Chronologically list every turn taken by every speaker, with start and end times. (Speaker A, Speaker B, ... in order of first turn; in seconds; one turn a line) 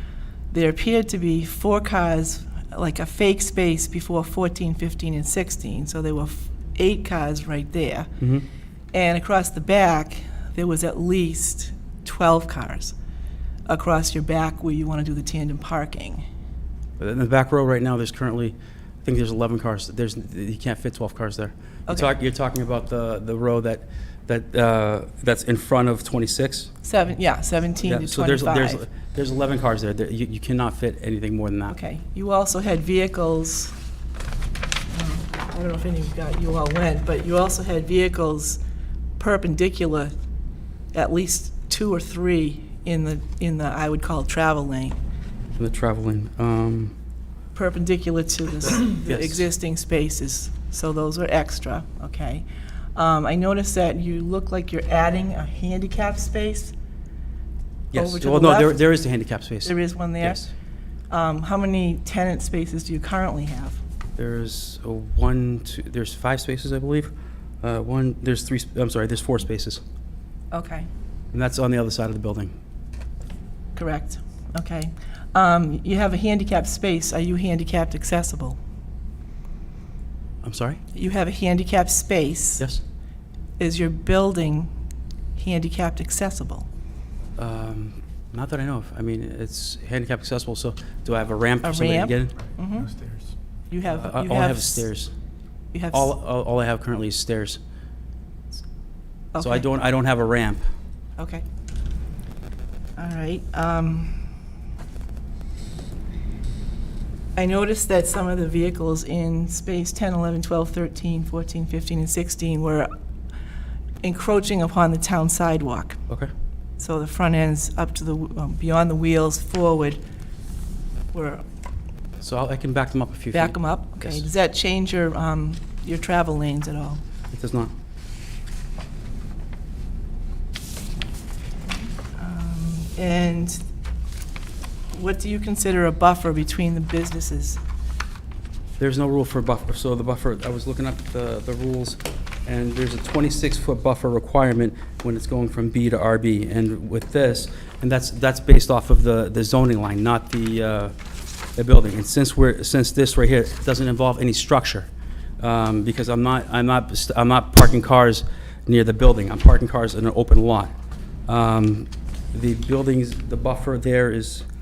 Speaker A: 0.5-8.1
Speaker B: 8.2-8.5
Speaker A: 8.9-12.9
Speaker A: 13.7-16.2
Speaker B: 17.0-26.7
Speaker A: 26.8-28.8
Speaker B: 27.8-31.8
Speaker A: 31.7-33.8
Speaker A: 34.9-38.6
Speaker A: 39.2-40.1
Speaker A: 40.9-45.0
Speaker B: 45.6-47.0
Speaker A: 47.5-56.7
Speaker B: 48.6-49.5
Speaker B: 57.9-60.5
Speaker A: 58.0-58.9
Speaker A: 59.6-60.5
Speaker A: 61.1-63.8
Speaker B: 64.2-69.8
Speaker A: 70.5-70.9
Speaker B: 71.3-72.5
Speaker A: 73.8-78.6
Speaker B: 80.4-80.8
Speaker A: 80.9-82.7
Speaker A: 83.6-84.7
Speaker A: 85.4-86.7
Speaker B: 87.4-92.4
Speaker A: 91.6-93.1
Speaker A: 93.7-94.9
Speaker B: 93.9-95.1
Speaker A: 95.7-96.1
Speaker B: 95.9-97.6
Speaker A: 99.3-99.7
Speaker B: 99.4-100.6
Speaker A: 101.2-101.4
Speaker A: 103.0-104.2
Speaker A: 107.4-112.9
Speaker A: 114.0-116.0
Speaker A: 116.8-120.0
Speaker A: 121.1-121.4
Speaker B: 122.2-124.3
Speaker A: 123.3-127.0
Speaker B: 127.3-127.7
Speaker A: 132.0-133.6
Speaker A: 134.9-137.6
Speaker B: 138.8-150.9
Speaker B: 151.6-154.9
Speaker B: 155.4-160.7
Speaker B: 161.3-164.5